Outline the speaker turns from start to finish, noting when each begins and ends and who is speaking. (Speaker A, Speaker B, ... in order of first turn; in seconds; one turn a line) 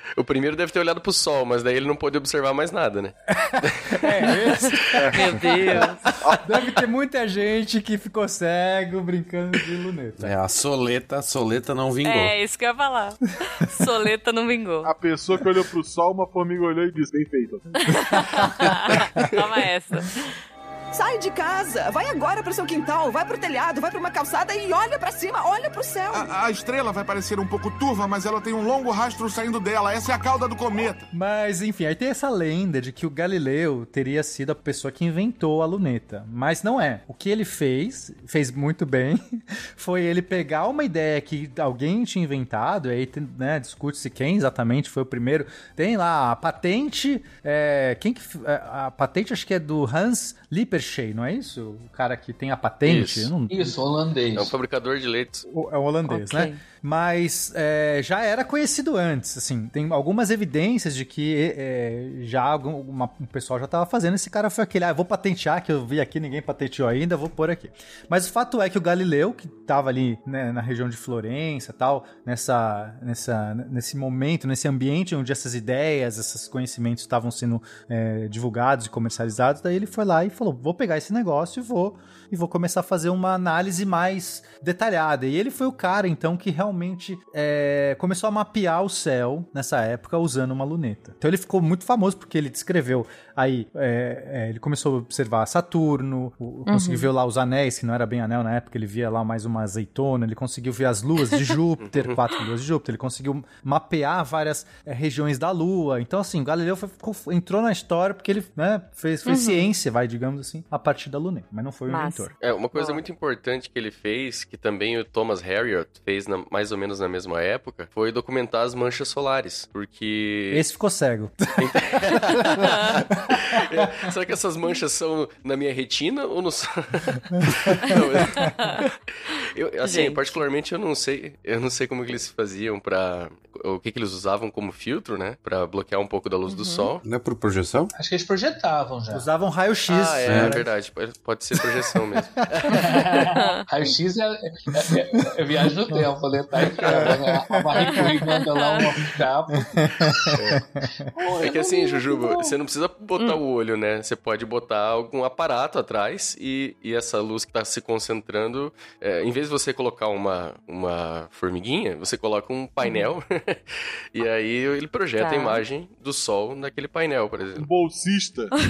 Speaker A: 0.2-4.0
Speaker B: 3.4-5.0
Speaker C: 5.0-5.4
Speaker D: 5.1-6.0
Speaker B: 5.7-10.3
Speaker E: 10.2-12.3
Speaker D: 12.0-14.9
Speaker C: 14.8-18.3
Speaker D: 17.8-20.3
Speaker F: 20.9-26.3
Speaker G: 26.1-31.1
Speaker B: 31.1-53.8
Speaker A: 52.9-53.3
Speaker H: 53.5-54.5
Speaker A: 54.3-55.5
Speaker B: 55.5-112.3
Speaker D: 56.1-56.6
Speaker D: 96.7-97.1
Speaker A: 101.8-102.2
Speaker D: 109.2-109.7
Speaker D: 111.9-113.0
Speaker A: 112.4-120.6
Speaker B: 120.5-122.5
Speaker A: 121.6-128.9
Speaker D: 122.6-122.9
Speaker B: 123.3-123.9
Speaker D: 128.4-128.8
Speaker A: 129.5-137.0
Speaker D: 129.8-130.4
Speaker D: 136.5-136.9
Speaker E: 137.0-137.9
Speaker H: 137.9-139.3
Speaker B: 139.1-140.6
Speaker A: 139.9-143.3
Speaker E: 140.2-140.6
Speaker H: 142.7-150.4
Speaker D: 143.3-143.6
Speaker A: 146.8-147.2
Speaker B: 146.8-148.0
Speaker D: 147.8-148.8
Speaker B: 149.8-150.8
Speaker A: 150.3-150.6
Speaker H: 151.1-152.6
Speaker A: 151.4-167.7
Speaker D: 162.8-163.1
Speaker D: 165.2-165.6
Speaker C: 167.6-168.5